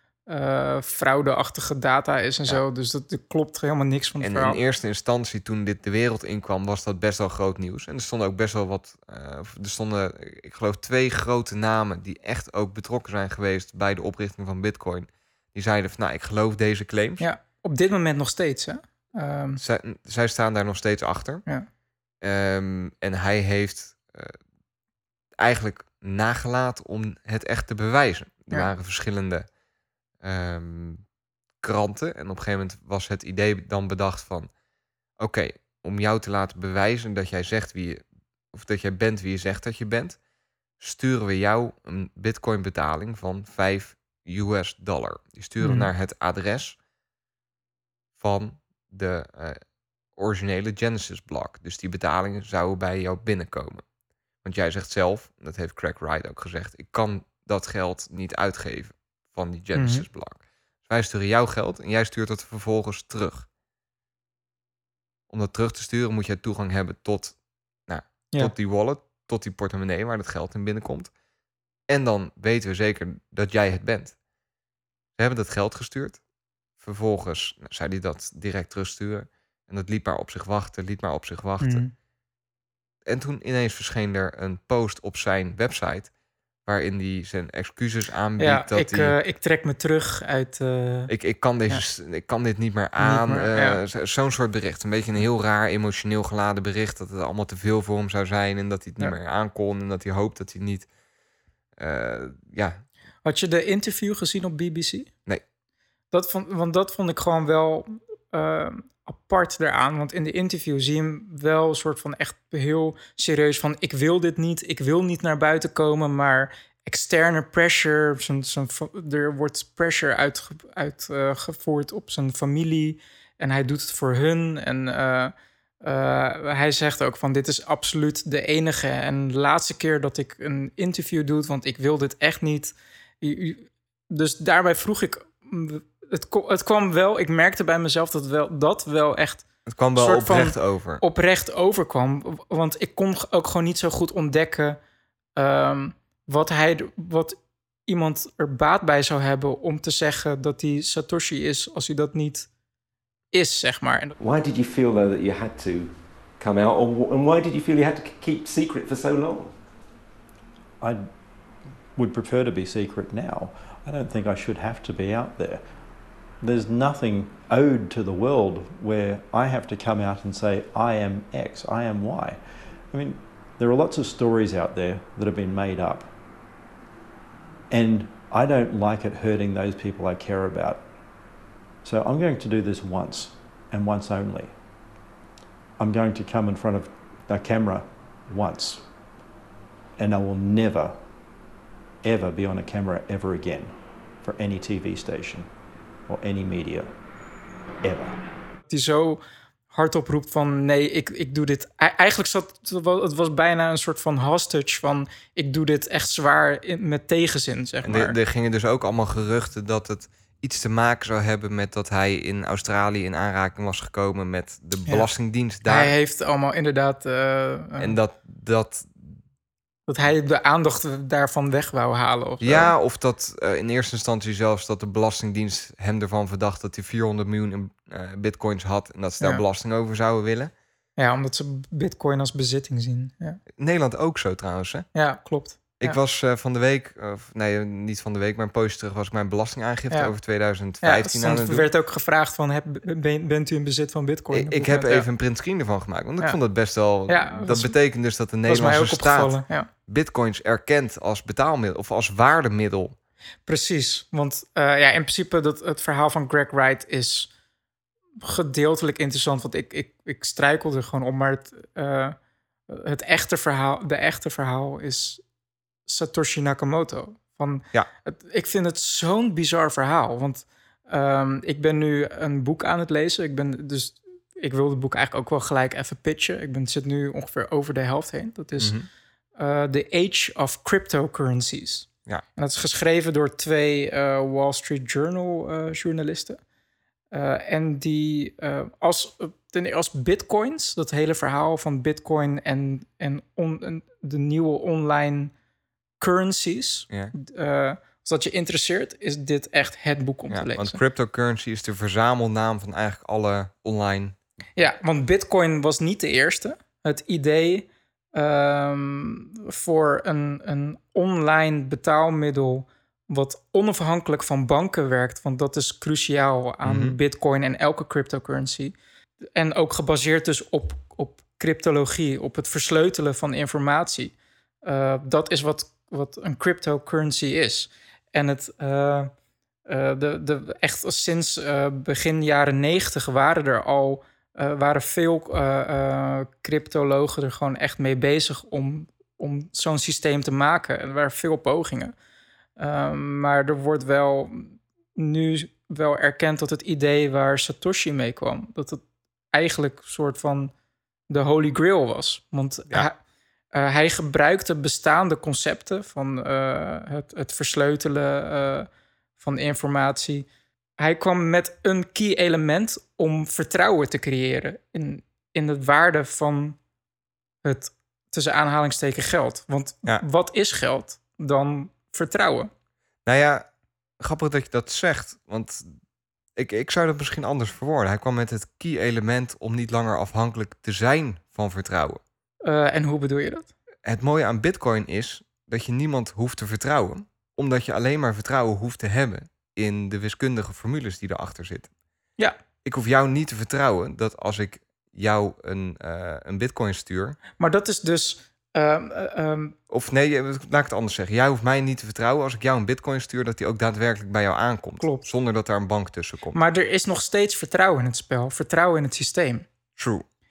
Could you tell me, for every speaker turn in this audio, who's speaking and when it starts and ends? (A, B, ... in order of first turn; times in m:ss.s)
0:00.3-0:04.6 A
0:04.2-0:17.3 B
0:17.2-0:19.6 A
0:19.6-0:21.4 B
0:22.2-0:24.4 B
0:25.4-0:29.4 B
0:30.2-0:31.0 B
0:31.6-0:34.5 B
0:35.2-0:40.2 B
0:40.8-0:46.8 B
0:45.6-0:45.9 A
0:48.2-0:49.6 B
0:50.2-0:53.8 B
0:54.4-1:03.5 B
0:59.7-1:00.0 A
1:05.3-1:07.3 B
1:07.9-1:11.1 B
1:11.9-1:14.1 B
1:15.2-1:16.2 B
1:16.8-1:21.8 B
1:21.6-1:21.9 A
1:23.0-1:26.1 B
1:26.6-1:29.1 B
1:28.4-1:31.1 A
1:31.1-1:40.9 B
1:33.0-1:33.8 A
1:41.8-1:42.8 B
1:43.2-1:45.1 A
1:46.1-2:24.8 A
2:19.6-2:21.0 B
2:25.4-2:32.5 A
2:33.3-2:34.1 A
2:34.2-2:39.5 C
2:40.8-2:41.1 D
2:41.9-2:45.6 D
2:46.4-2:56.1 D
2:57.7-3:00.8 D
3:01.8-3:04.5 D
3:05.8-3:08.8 D
3:10.0-3:11.0 D
3:12.0-3:15.5 D
3:16.1-3:16.9 D
3:17.8-3:18.2 D
3:18.7-3:28.2 A
3:27.8-3:35.9 B
3:35.6-3:37.9 A
3:37.8-3:39.2 B
3:39.9-3:42.7 A
3:42.4-3:50.5 B
3:51.0-3:53.4 A
3:53.6-3:54.9 B
3:54.9-3:56.0 A
3:55.8-4:01.6 B
4:00.8-4:05.0 A
4:04.3-4:13.0 B
4:07.1-4:07.7 A
4:08.4-4:09.7 A
4:13.4-4:17.3 A
4:18.2-4:22.1 A
4:22.7-4:25.2 A
4:25.9-4:38.7 A
4:38.6-4:38.9 B
4:39.4-4:46.4 A
4:47.1-4:55.3 A
4:56.0-5:00.8 A
5:00.3-5:04.2 B
5:04.6-5:18.7 A
5:16.6-5:17.0 B
5:19.3-5:29.1 A
5:29.7-5:41.9 A
5:42.6-5:48.8 A
5:49.3-5:50.5 A
5:51.1-5:53.0 A
5:53.5-6:00.3 A
6:00.8-6:06.6 A
6:07.4-6:12.5 A
6:13.0-6:13.5 B
6:14.0-6:15.7 B
6:16.4-6:22.0 B
6:22.4-6:23.5 A
6:23.8-6:31.7 B
6:32.6-6:37.2 B
6:37.4-6:39.5 A
6:39.7-6:46.4 B
6:44.8-6:45.0 A
6:46.3-6:49.4 A
6:49.8-6:50.0 B